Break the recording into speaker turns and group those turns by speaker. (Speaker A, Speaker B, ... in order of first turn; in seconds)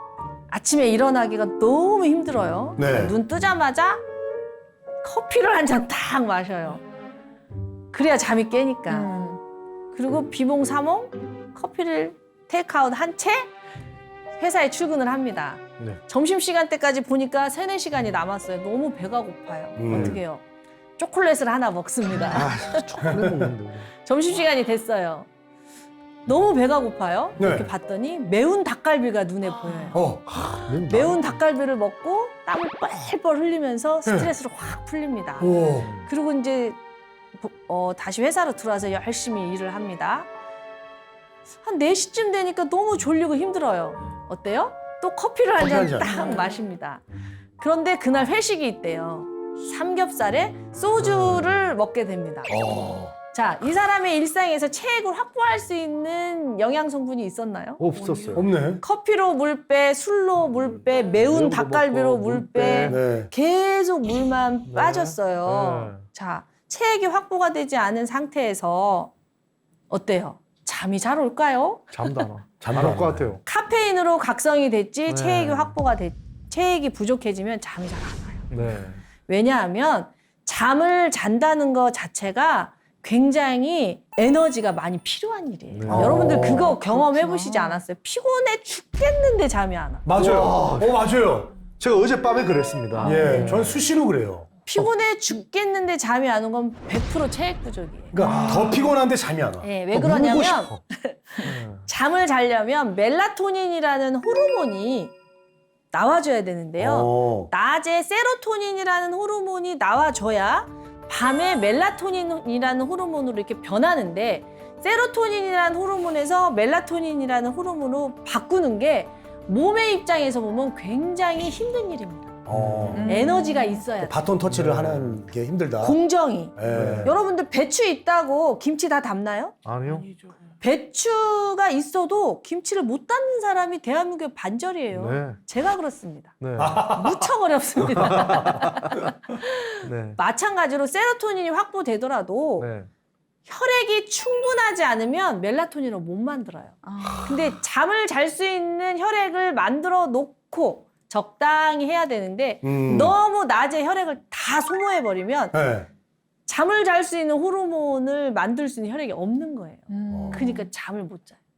Speaker A: 0.5-4.0, 5.0-6.8, 7.9-9.2, 9.9-13.5, 14.4-20.4, 21.0-23.0, 24.0-25.3, 26.2-36.8, 37.4-40.3, 41.6-47.0, 47.6-52.6, 53.3-57.8, 58.8-69.1, 69.9-72.3, 73.5-78.5, 79.3-90.1, 93.0-93.6, 94.7-98.2, 99.6-105.1, 105.9-122.4, 123.0-124.3, 125.8-129.6, 130.6-136.3, 136.9-142.7, 143.5-155.6, 156.5-161.4
Speaker B: 2.8-3.2, 19.8-20.2, 23.0-23.5, 27.4-27.7, 29.9-30.4, 34.1-34.3, 35.4-35.9, 45.6-46.1, 52.5-53.1, 58.4-58.8, 62.9-63.3, 72.6-73.3, 85.9-86.7, 90.1-91.6, 93.0-94.5, 98.1-100.6, 106.8-107.5, 122.5-123.1, 124.0-126.0, 126.6-127.1, 136.6-137.3, 152.6-153.2, 155.5-155.9, 160.1-160.6
Speaker C: 8.9-9.4, 29.6-30.0, 46.1-46.5, 86.2-87.8, 93.0-93.6, 98.2-98.9, 122.9-123.8, 146.8-147.5, 159.9-160.5
Speaker D: 19.9-20.2, 22.2-23.9, 30.7-31.3, 35.8-36.1, 51.1-51.5, 57.8-58.5, 61.1-63.0, 64.7-66.0, 71.9-73.4, 75.1-75.8, 78.5-79.0, 85.7-86.5, 90.2-91.0, 91.8-93.8, 98.2-98.7, 101.5-101.8, 122.5-123.0, 124.5-125.2, 126.7-127.1, 129.7-130.1, 134.9-135.4, 136.4-136.9, 137.9-139.0, 139.8-140.2, 142.6-142.9